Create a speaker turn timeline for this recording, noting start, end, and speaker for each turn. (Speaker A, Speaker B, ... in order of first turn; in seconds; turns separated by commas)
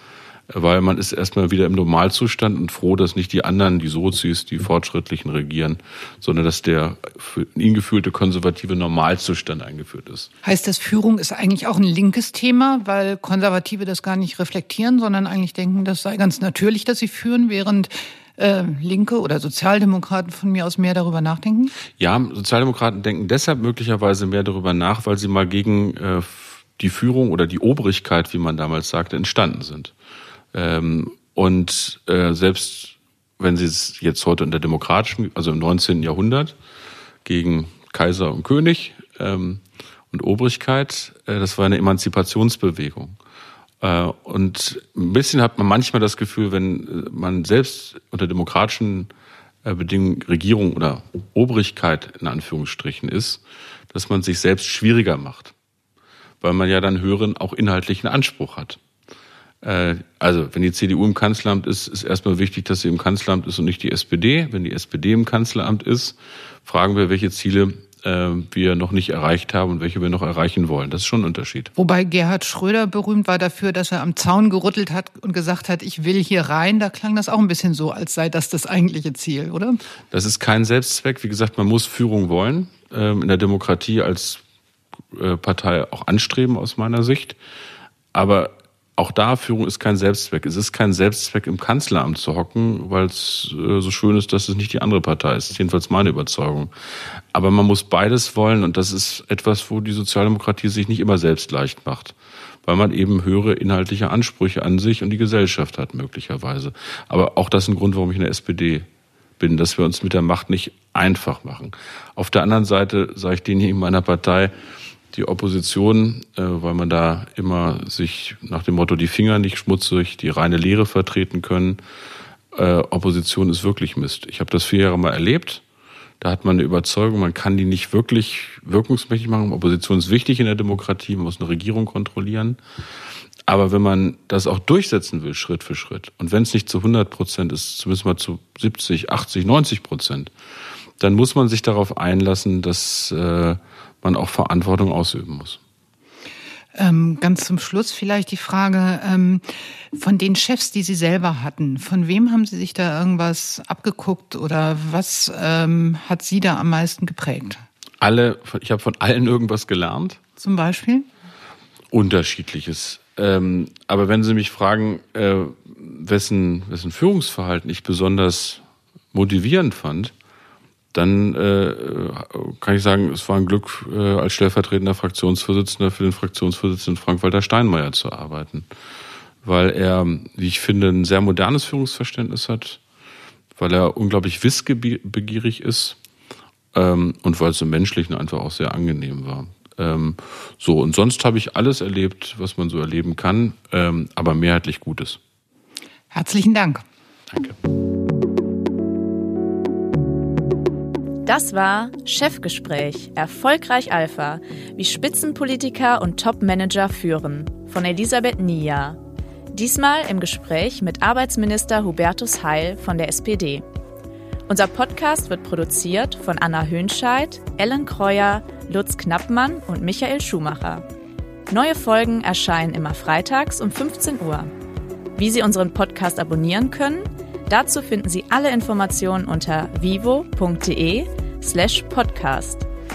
Speaker A: 0.5-10.3, Speaker B: 10.4-21.7, Speaker A: 22.0-29.9, Speaker A: 30.5-36.5, Speaker A: 37.2-43.1, Speaker A: 43.8-49.1, Speaker A: 49.6-55.5, Speaker A: 56.4-58.8, Speaker A: 59.6-71.7, Speaker B: 71.8-79.8, Speaker A: 80.1-84.4, Speaker A: 85.1-87.4, Speaker A: 88.1-96.7, Speaker A: 97.3-108.8, Speaker A: 109.4-114.5, Speaker A: 115.1-121.8, Speaker A: 122.5-125.6, Speaker A: 126.2-132.6, Speaker A: 133.5-140.3, Speaker A: 141.0-145.6, Speaker B: 146.7-157.6, Speaker A: 158.0-160.2, Speaker B: 160.4-161.1, Speaker A: 161.9-168.6, Speaker A: 169.1-170.1, Speaker A: 170.9-178.7, Speaker A: 179.4-182.8, Speaker A: 183.5-186.0, Speaker A: 186.7-195.2, Speaker B: 196.1-196.8, Speaker A: 197.3-197.6, Speaker C: 201.2-209.0, Speaker C: 209.5-213.7, Speaker C: 214.5-220.8, Speaker C: 221.5-224.5, Speaker C: 225.2-232.7